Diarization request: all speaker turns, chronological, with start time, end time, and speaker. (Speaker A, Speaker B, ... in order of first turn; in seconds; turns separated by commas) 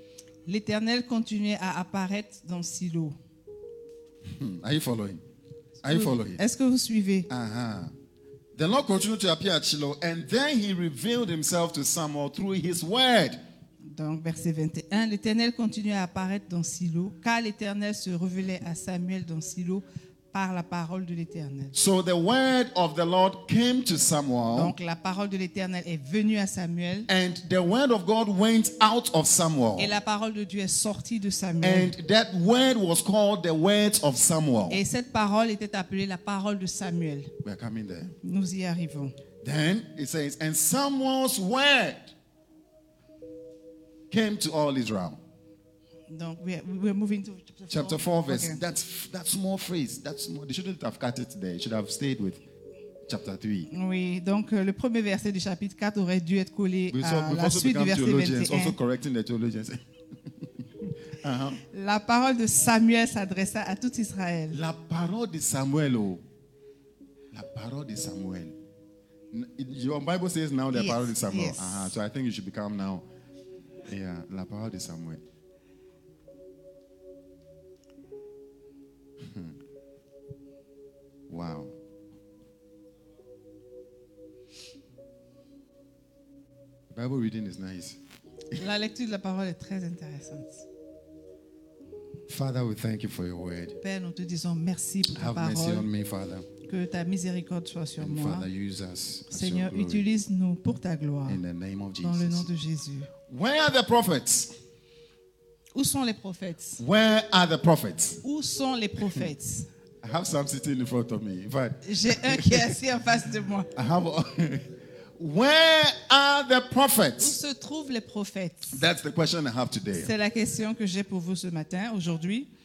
Speaker A: 0.5-3.2, Speaker B: 4.3-5.2, Speaker B: 5.8-6.4, Speaker A: 5.9-7.3, Speaker B: 7.3-7.9, Speaker B: 8.6-13.4, Speaker A: 13.8-21.7, Speaker B: 21.7-24.8, Speaker A: 24.5-27.1, Speaker B: 27.1-29.9, Speaker A: 29.8-31.9, Speaker B: 31.6-34.8, Speaker A: 34.7-37.3, Speaker B: 37.4-38.1, Speaker A: 38.2-39.1, Speaker B: 39.4-42.1, Speaker B: 44.1-45.2, Speaker A: 46.1-48.6, Speaker B: 47.7-52.4, Speaker B: 53.1-53.7, Speaker A: 53.7-58.8, Speaker B: 56.9-59.8, Speaker B: 61.1-61.6, Speaker A: 61.6-64.6, Speaker B: 64.5-66.2, Speaker B: 67.3-68.5, Speaker B: 69.3-73.1, Speaker A: 70.7-71.9, Speaker B: 73.9-75.2, Speaker B: 79.2-79.5, Speaker B: 81.3-81.7, Speaker B: 86.9-88.0, Speaker A: 88.5-90.7, Speaker B: 92.3-93.8, Speaker A: 93.8-95.9, Speaker B: 95.1-96.5, Speaker A: 96.6-98.5, Speaker B: 98.0-100.0, Speaker A: 99.3-101.4, Speaker B: 101.3-102.5, Speaker A: 102.0-103.1, Speaker B: 103.3-104.5, Speaker A: 105.7-106.8, Speaker B: 106.8-108.2, Speaker A: 108.2-109.7, Speaker B: 110.0-112.8, Speaker A: 111.8-113.7, Speaker B: 113.7-117.4, Speaker A: 117.2-118.8, Speaker B: 118.7-120.1, Speaker A: 120.0-122.5